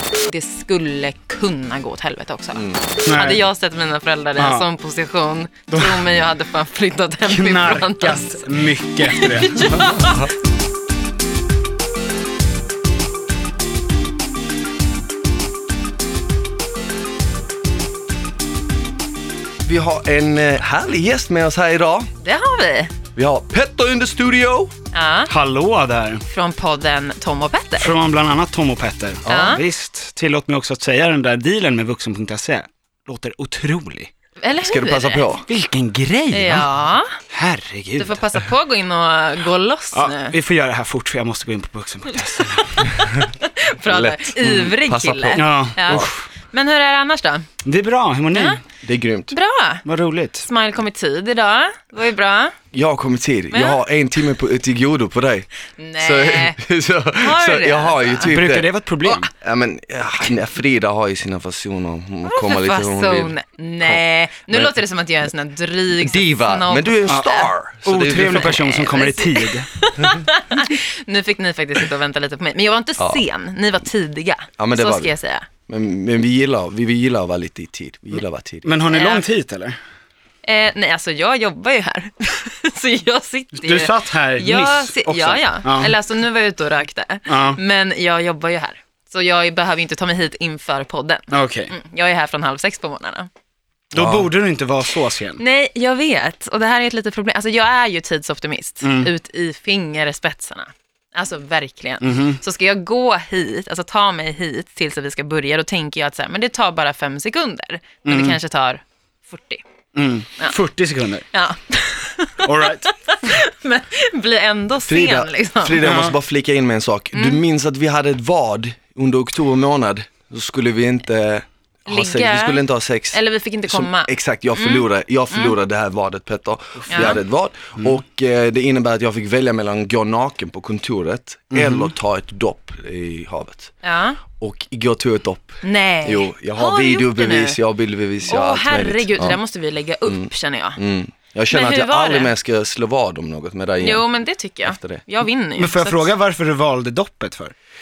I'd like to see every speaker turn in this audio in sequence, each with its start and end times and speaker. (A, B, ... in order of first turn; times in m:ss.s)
0:00.2-0:10.3 A
0:02.5-0:02.8 B
0:03.0-0:03.4 C
0:04.4-0:04.6 C
0:05.7-0:06.0 C
0:07.2-0:10.0 C
0:19.6-0:22.1 B
0:22.2-0:22.9 A
0:23.2-0:24.7 B
0:24.9-0:25.3 A
0:25.3-0:26.3 C
0:26.3-0:27.9 A
0:27.8-0:34.1 C
0:29.3-0:29.6 A
0:34.4-0:35.4 A
0:34.6-0:35.4 B
0:35.5-0:36.7 C
0:36.3-0:37.1 A
0:37.3-0:38.1 C
0:38.0-0:40.3 A
0:39.9-0:42.9 C
0:42.4-0:47.5 A
0:43.8-0:46.1 B
0:45.4-0:46.2 C
0:47.6-0:48.6 C
0:48.3-0:48.6 A
0:48.8-0:49.4 B
0:49.3-0:49.8 A
0:49.8-0:50.5 C
0:50.4-0:52.6 A
0:52.7-0:55.5 B
0:53.5-0:53.8 A
0:55.8-0:56.6 A
0:56.0-1:04.7 B
0:57.2-0:58.3 A
0:58.2-0:59.3 C
1:02.2-1:07.5 A
1:06.0-1:08.6 B
1:07.8-1:09.7 C
1:08.1-1:15.5 A
1:14.6-1:15.1 B
1:15.7-1:18.8 B
1:18.6-1:19.8 C
1:18.9-1:19.2 A
1:20.4-1:33.3 A
1:23.6-1:26.0 C
1:27.3-1:27.6 C
1:31.3-1:31.7 C
1:33.9-1:34.3 B
1:33.9-1:35.4 C
1:35.4-1:49.6 A
1:38.8-1:39.1 C
1:42.0-1:42.4 C
1:48.0-1:48.4 C
1:49.9-1:51.2 C
1:51.3-1:55.8 A
1:52.4-1:52.9 C
1:54.9-2:13.7 B
1:55.8-1:56.2 C
1:57.1-1:57.4 A
2:01.9-2:05.5 A
2:06.9-2:07.1 C
2:06.9-2:07.2 A
2:11.5-2:11.9 C
2:13.8-2:14.2 A
2:14.4-2:19.4 B
2:15.6-2:17.6 A
2:18.2-2:20.8 A
2:20.0-2:24.0 B
2:21.5-2:22.3 A
2:23.8-2:26.1 A
2:24.6-2:25.0 B
2:25.6-2:27.5 C